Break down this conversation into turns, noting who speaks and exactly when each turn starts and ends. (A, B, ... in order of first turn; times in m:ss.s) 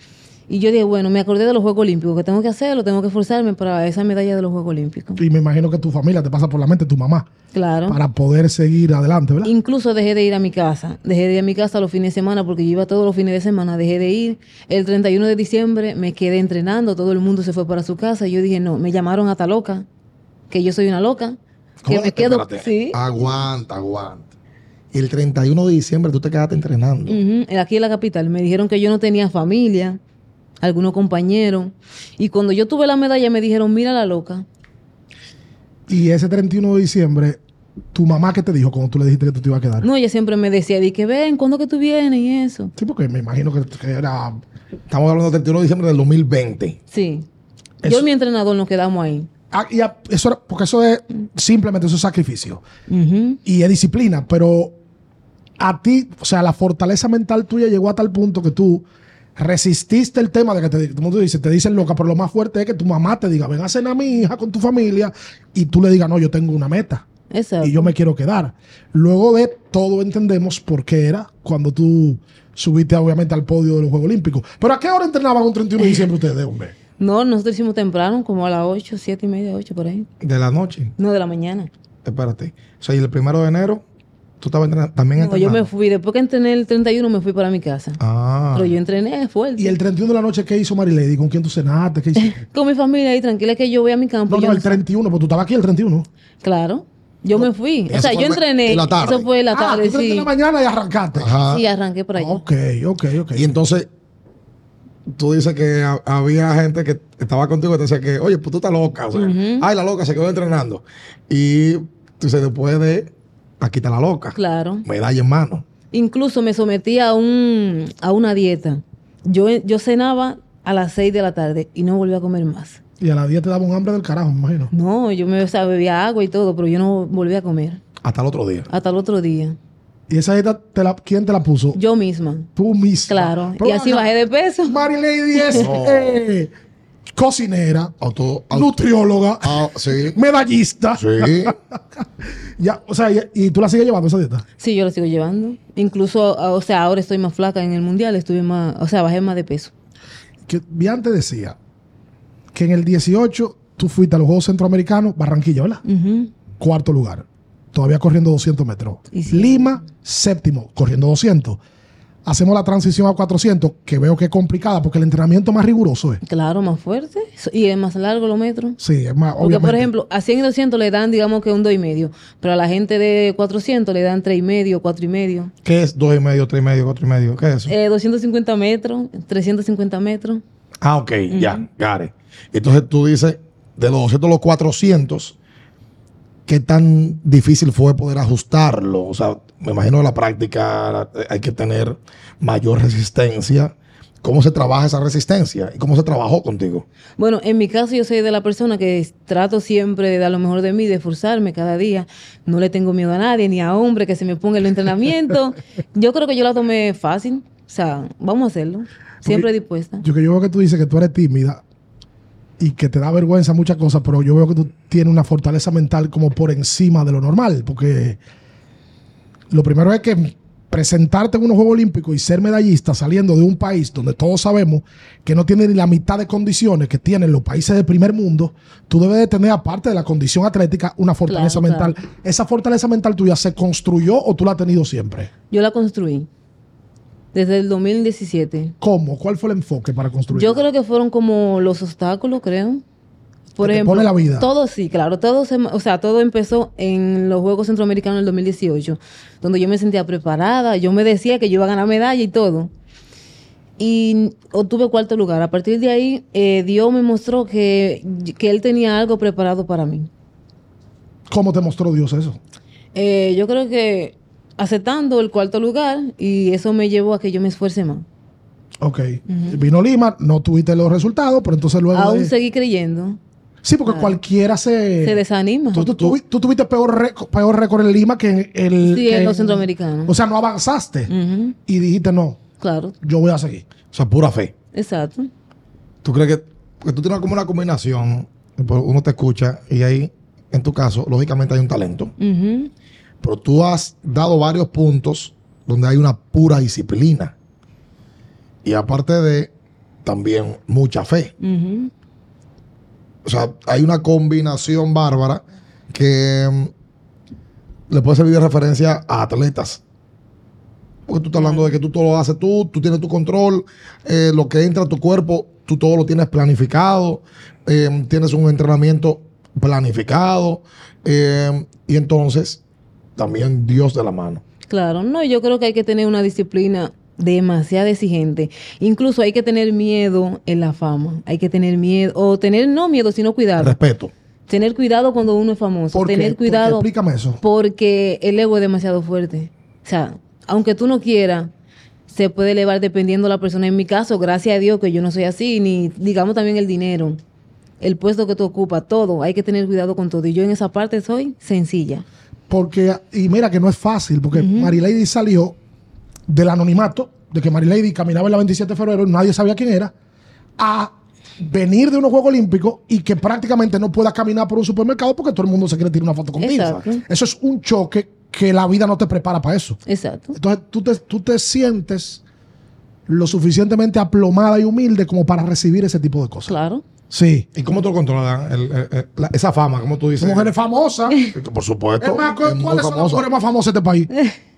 0:00.5-0:05.2 A
0:05.2-0:07.3 B
0:07.5-0:08.0 A
0:07.9-0:09.5 B
0:09.4-0:19.9 A
0:20.5-0:23.0 A
0:21.8-0:24.2 C
0:24.9-0:27.2 C
0:27.1-0:30.0 A
0:30.6-0:34.4 A
0:35.9-0:37.4 B
0:37.9-0:39.9 B
0:39.8-0:42.7 A
0:42.8-0:44.4 B
0:44.9-0:46.8 C
0:46.9-0:47.3 A
0:47.8-0:49.3 A
0:49.5-0:52.6 B
0:52.9-0:53.4 A
0:53.4-0:54.8 B
0:55.6-0:58.8 B
0:59.4-1:07.1 B
1:07.3-1:07.9 A
1:07.6-1:16.7 B
1:17.0-1:20.1 A
1:20.2-1:21.0 C
1:21.0-1:21.7 A
1:22.0-1:23.8 C
1:24.4-1:25.7 C
1:25.2-1:28.0 A
1:28.0-1:28.8 C
1:28.5-1:29.8 A
1:29.6-1:32.4 B
1:32.2-1:34.8 A
1:34.3-1:36.1 B
1:36.4-1:40.3 A
1:37.9-1:39.3 C
1:39.5-1:41.3 B
1:41.2-1:41.6 C
1:41.4-1:42.4 A
1:42.2-1:43.6 B
1:43.4-1:43.9 C
1:45.1-1:55.6 C
1:49.1-1:49.7 A
1:54.4-1:54.8 A
1:55.9-2:02.8 A
2:03.0-2:04.7 B
2:04.7-2:07.8 A
2:08.0-2:08.7 C
2:08.7-2:09.6 A
2:10.1-2:11.8 B
2:11.7-2:12.5 A
2:12.6-2:14.1 B
2:13.1-2:14.8 A
2:14.6-2:16.5 B
2:15.3-2:15.7 A
2:15.6-2:16.2 C
2:17.2-2:17.9 B
2:18.0-2:18.7 C
2:18.5-2:24.4 B
2:19.4-2:20.2 C
2:21.0-2:21.6 C
2:24.6-2:29.7 A
2:30.5-2:31.6 B
2:32.5-2:35.8 B
2:35.8-2:36.3 A
2:36.6-2:41.6 B
2:39.1-2:39.8 A
2:42.2-2:46.2 B
2:46.2-2:48.8 A
2:48.8-2:49.9 B
2:49.4-2:55.5 A
2:55.6-2:57.7 C
2:57.7-3:00.4 A
3:00.8-3:05.4 C
3:01.3-3:01.6 A
3:06.5-3:16.9 C
3:17.2-3:30.0 A
3:30.0-3:31.6 B
3:32.6-3:38.2 B
3:39.5-3:55.3 B
3:51.3-3:52.0 A
3:55.5-3:56.3 A
3:57.3-3:58.8 A
3:58.8-4:00.6 B
4:00.3-4:02.8 A
4:03.6-4:12.7 A
4:03.6-4:04.5 B
4:13.8-4:20.1 A
4:21.3-4:22.4 B
4:23.0-4:28.0 A
4:28.8-4:32.3 B
4:29.3-4:29.6 A
4:31.9-4:33.2 A
4:33.6-4:35.2 B
4:33.9-4:34.2 A
4:35.0-4:35.9 A
4:35.7-4:41.1 B
4:38.9-4:40.1 A
4:41.1-4:41.6 A
4:41.7-4:42.4 B
4:42.6-4:43.0 A
4:43.0-4:43.6 B
4:43.9-4:44.5 C
4:44.7-4:45.3 A
4:46.0-4:52.1 C
4:52.2-4:52.7 A
4:53.2-4:57.3 C
4:58.6-4:59.5 C
5:00.0-5:01.3 C
5:01.4-5:01.9 A
5:03.2-5:06.7 C
5:07.9-5:09.8 C
5:11.1-5:22.6 C
5:11.4-5:11.7 A
5:23.2-5:24.4 C
5:24.7-5:33.8 A
5:33.6-5:34.1 C
5:34.5-5:36.9 A
5:35.9-5:37.4 B
5:37.4-5:41.5 A
5:42.1-5:47.2 A
5:47.8-5:52.0 A
5:52.5-5:55.6 B
5:54.3-5:54.7 A
5:56.3-5:59.9 B
6:00.6-6:09.8 B
6:06.4-6:07.0 A
6:09.9-6:10.4 A
6:10.4-6:12.2 B
6:13.1-6:16.6 B
6:16.5-6:16.8 A
6:17.1-6:17.5 B
6:17.6-6:20.5 C
6:20.2-6:21.2 B
6:21.3-6:23.2 C
6:22.0-6:24.1 B